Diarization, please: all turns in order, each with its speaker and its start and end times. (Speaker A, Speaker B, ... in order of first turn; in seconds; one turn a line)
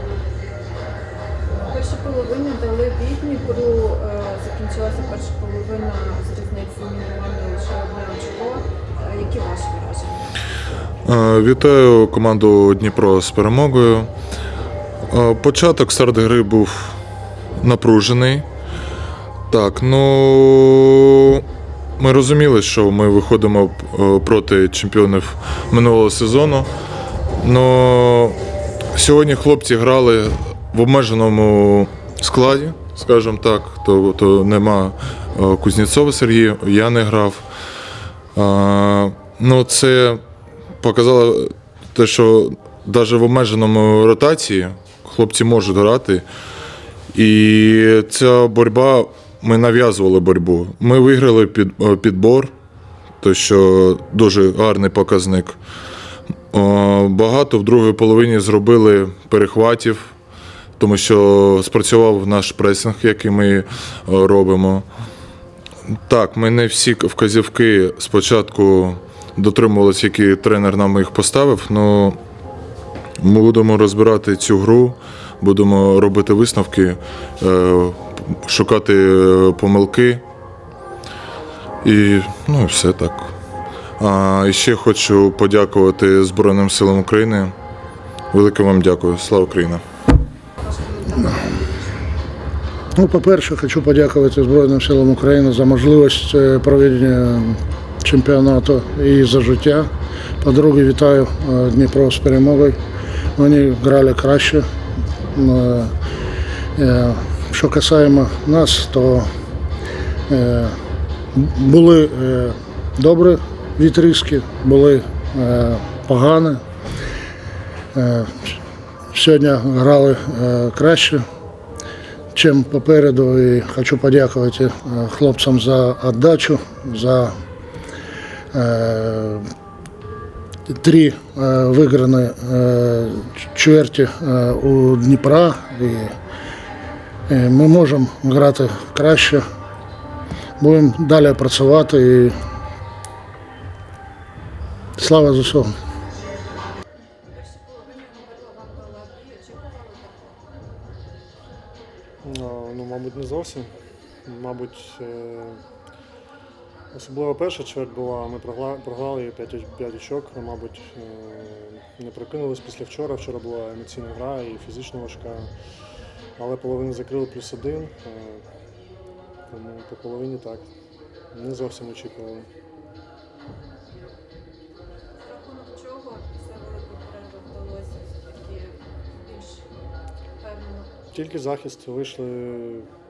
Speaker A: 1.7-10.3
Speaker B: 11.1-14.1
Speaker B: 15.1-17.0
Speaker B: 17.6-18.5
Speaker B: 19.5-21.4
Speaker B: 22.0-26.7
Speaker B: 27.4-28.4
Speaker B: 28.9-37.5
Speaker B: 38.4-40.2
Speaker B: 40.8-46.2
Speaker B: 47.1-52.5
Speaker B: 53.2-55.6
Speaker B: 56.5-60.1
Speaker B: 60.8-64.9
Speaker B: 65.9-72.2
Speaker B: 73.2-80.2
Speaker B: 81.8-83.3
Speaker B: 84.0-87.5
Speaker B: 88.3-89.8
Speaker A: 90.6-91.9
Speaker C: 93.0-99.9
Speaker C: 100.4-102.8
Speaker C: 103.4-104.7
Speaker C: 105.3-105.9
Speaker C: 106.8-109.3
Speaker C: 110.3-110.8
Speaker C: 111.3-116.6
Speaker C: 118.0-118.5
Speaker C: 119.1-121.2
Speaker C: 122.3-127.3
Speaker C: 128.5-129.5
Speaker C: 130.7-136.2
Speaker C: 137.3-139.4
Speaker C: 140.6-142.3
Speaker C: 145.0-145.7
Speaker A: 147.3-150.4
Speaker D: 152.2-153.7
Speaker D: 154.2-155.6
Speaker D: 156.9-165.5
Speaker D: 166.4-168.4
Speaker D: 169.5-170.7
Speaker D: 171.3-172.5
Speaker A: 175.2-179.7
Speaker A: 180.4-180.9
Speaker D: 181.1-182.9